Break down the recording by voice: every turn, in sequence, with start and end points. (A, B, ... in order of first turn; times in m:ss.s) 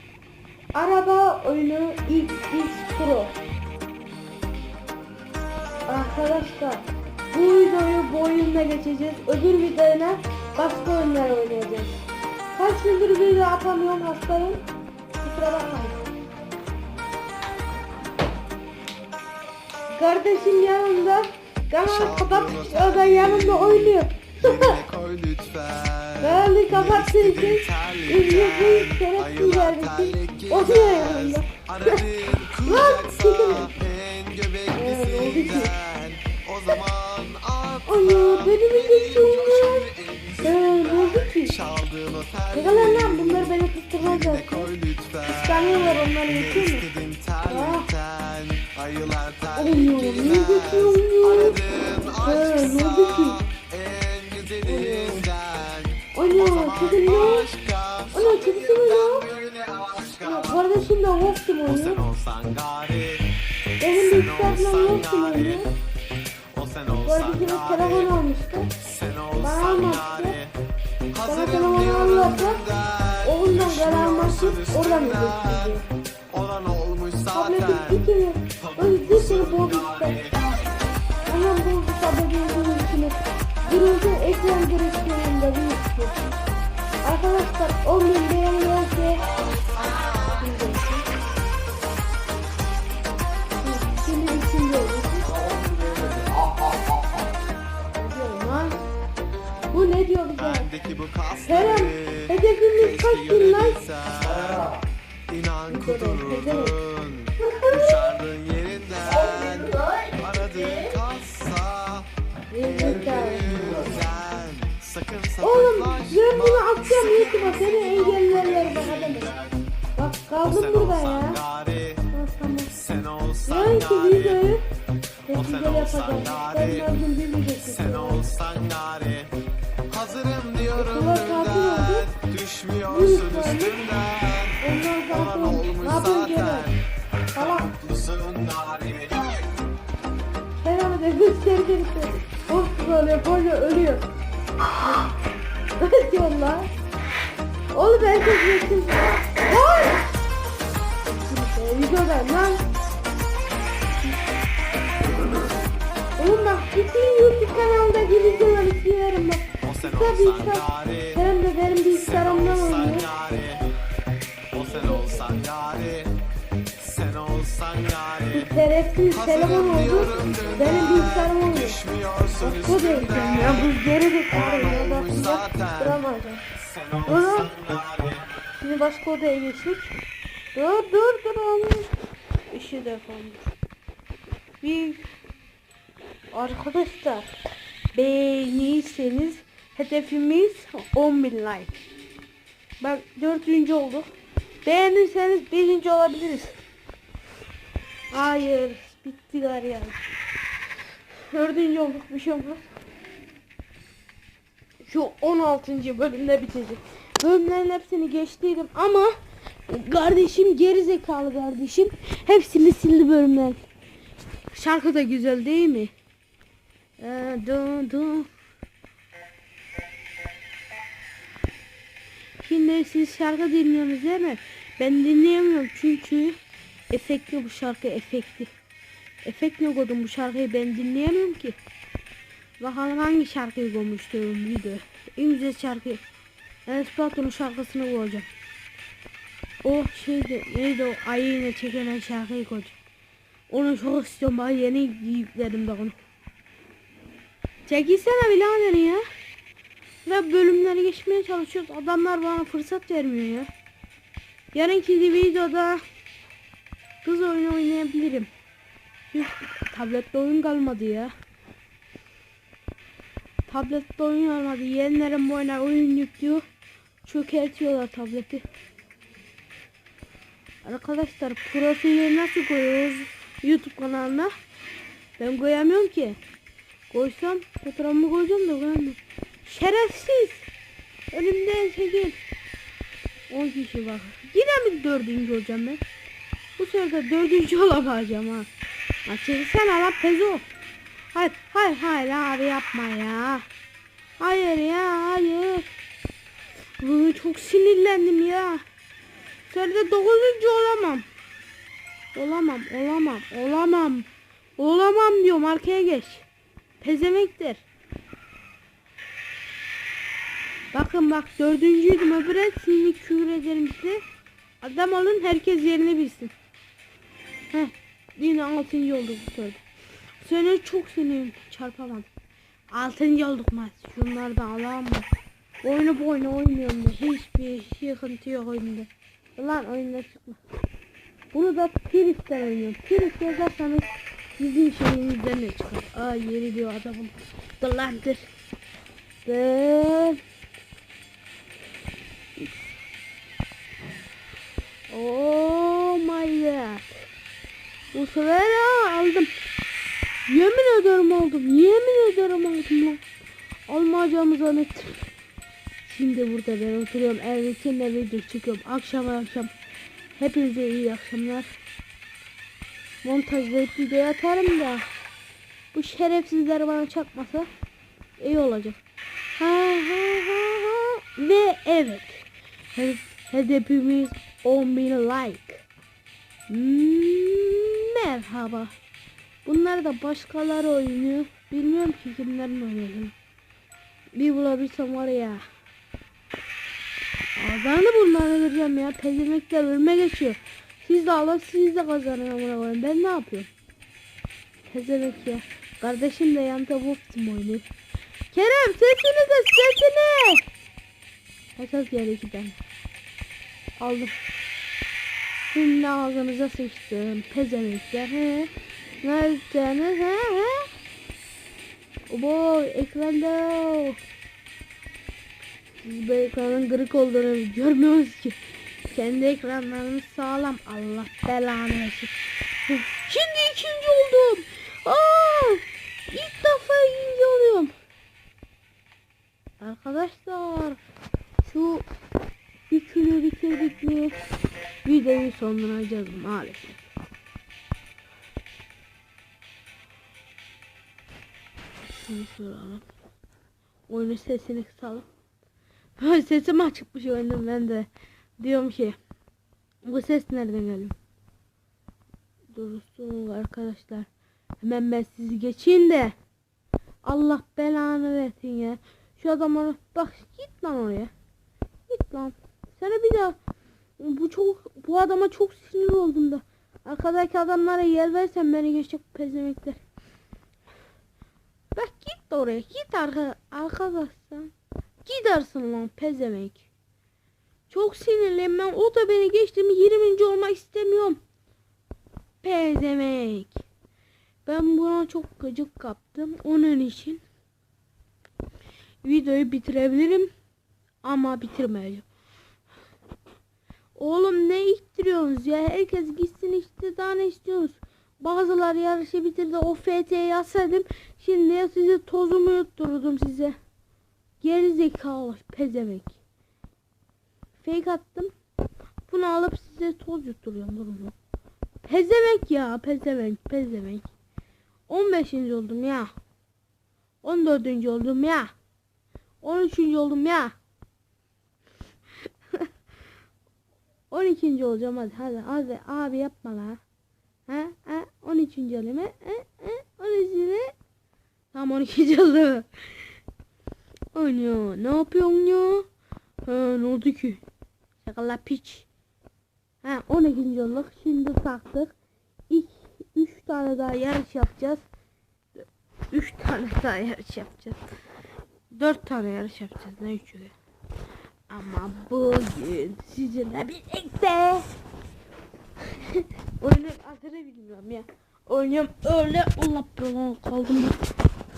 0:00.7-0:03.4 A
0:05.9-0:14.6 A
0:15.2-0:16.0 A
0:19.9-0:24.8 A
0:21.8-1:00.6 B
0:26.2-0:33.7 A
0:34.8-0:35.7 A
0:37.9-0:39.9 A
0:40.4-0:41.6 A
0:42.5-0:44.7 A
0:45.2-0:46.8 A
0:47.4-0:47.9 A
0:49.6-0:51.6 A
0:52.1-0:53.4 A
0:54.6-0:55.3 A
0:56.1-0:57.5 A
0:58.1-0:59.2 A
1:00.2-1:02.0 A
1:01.7-1:03.3 B
1:03.8-1:05.7 A
1:03.9-1:05.7 B
1:06.5-1:08.1 B
1:07.0-1:08.7 A
1:08.8-1:10.6 B
1:09.4-1:10.4 A
1:11.1-1:15.8 B
1:11.2-1:12.6 A
1:13.2-1:15.8 A
1:16.3-1:18.0 B
1:17.3-1:20.2 A
1:18.6-1:20.6 B
1:21.3-1:26.2 A
1:27.0-1:29.2 A
1:29.7-1:30.4 B
1:30.0-1:31.0 A
1:33.6-1:35.3 A
1:35.4-1:36.3 B
1:37.9-1:38.8 A
1:39.7-1:40.7 A
1:40.4-1:52.1 B
1:41.4-1:43.8 A
1:45.7-1:46.8 A
1:47.4-1:47.9 A
1:52.5-1:53.8 A
1:52.6-1:59.6 B
1:55.4-1:59.3 A
2:00.0-2:01.4 A
2:00.4-2:02.1 B
2:02.1-2:02.7 A
2:02.7-2:04.5 B
2:03.4-2:04.6 A
2:05.2-2:08.2 A
2:05.3-2:06.9 B
2:07.6-2:16.8 B
2:10.7-2:12.1 A
2:12.9-2:13.9 A
2:14.6-2:16.7 A
2:17.3-2:17.7 A
2:17.4-2:19.3 B
2:20.6-2:24.0 A
2:24.8-2:25.1 A
2:25.8-2:26.7 A
2:27.7-2:30.1 A
2:31.0-2:32.6 A
2:36.2-2:43.1 A
2:39.6-2:41.2 B
2:41.9-2:43.7 B
2:44.5-2:46.2 B
2:44.7-2:45.3 A
2:46.8-2:48.5 B
2:48.3-2:51.8 A
2:49.1-2:56.0 B
2:52.4-2:56.4 A
2:56.5-2:58.3 B
2:57.1-2:57.5 A
2:58.6-2:59.9 A
3:00.5-3:01.9 A
3:02.5-3:03.5 A
3:04.6-3:05.1 A
3:06.3-3:07.2 A
3:07.9-3:11.8 A
3:12.8-3:14.1 A
3:14.6-3:16.6 A
3:18.1-3:20.1 A
3:21.3-3:22.6 A
3:24.8-3:29.1 A
3:29.7-3:33.6 A
3:34.5-3:35.9 A
3:37.0-3:38.3 A
3:42.4-3:46.4 A
3:46.9-3:48.5 A
3:49.2-3:51.6 A
3:52.6-3:56.0 A
3:56.7-3:58.3 A
3:59.6-4:02.8 A
4:03.5-4:05.9 A
4:07.7-4:09.0 A
4:10.0-4:13.5 A
4:14.5-4:15.8 A
4:17.0-4:18.3 A
4:19.1-4:21.1 A
4:23.5-4:26.4 A
4:27.0-4:28.4 A
4:30.6-4:34.3 A
4:35.2-4:36.2 A
4:36.9-4:40.4 A
4:41.1-4:42.2 A
4:43.3-4:45.8 A
4:46.6-4:48.5 A
4:49.1-4:50.4 A
4:51.1-4:53.5 A
4:54.2-4:55.7 A
4:56.8-4:58.6 A
4:59.5-5:01.0 A
5:02.2-5:06.3 A
5:06.8-5:07.6 A
5:10.7-5:14.0 A
5:14.6-5:16.3 A
5:17.5-5:19.6 A
5:20.2-5:22.1 A
5:22.7-5:25.1 A
5:25.6-5:30.4 A
5:31.3-5:38.3 A
5:39.2-5:40.2 A
5:44.9-5:46.9 A
5:47.9-5:49.3 A
5:50.3-5:53.0 A
5:53.7-5:55.1 A
5:55.8-5:59.5 A
6:00.2-6:01.5 A
6:03.0-6:04.8 A
6:05.7-6:07.5 A
6:08.2-6:08.8 A
6:09.4-6:15.6 A
6:16.5-6:18.7 A
6:19.4-6:23.1 A
6:24.1-6:25.4 A
6:27.4-6:33.5 A
6:34.7-6:37.6 A
6:38.3-6:40.4 A
6:41.6-6:42.6 A
6:43.8-6:44.1 A
6:45.5-6:50.7 A
6:52.1-6:54.0 A
6:55.8-6:58.4 A
6:58.9-7:02.1 A
7:02.7-7:07.7 A
7:09.6-7:10.8 A
7:11.4-7:11.8 A
7:12.7-7:14.1 A
7:14.8-7:16.8 A
7:22.0-7:22.9 A
7:23.9-7:25.0 A
7:26.0-7:27.9 A
7:28.4-7:29.0 A
7:29.8-7:31.0 A
7:32.5-7:34.1 A
7:34.6-7:36.1 A
7:37.0-7:41.1 A
7:41.9-7:43.4 A
7:44.0-7:49.8 A
7:51.8-7:54.5 A
7:55.0-7:56.7 A
7:57.7-8:01.2 A
8:02.4-8:03.6 A
8:04.4-8:07.2 A
8:09.0-8:10.3 A
8:11.0-8:12.0 A
8:14.0-8:23.6 A
8:24.4-8:26.2 A
8:27.6-8:28.3 A
8:29.1-8:31.2 A
8:31.8-8:34.1 A
8:34.9-8:36.1 A
8:37.2-8:38.5 A
8:39.4-8:40.5 A
8:44.1-8:46.8 A
8:47.5-8:50.8 A
8:51.5-8:53.1 A
8:54.1-8:55.9 A
8:56.4-8:57.4 A
8:58.0-8:58.9 A
8:59.8-9:02.0 A
9:02.5-9:04.8 A
9:06.1-9:07.9 A
9:08.7-9:10.5 A
9:11.5-9:14.7 A
9:15.9-9:21.0 A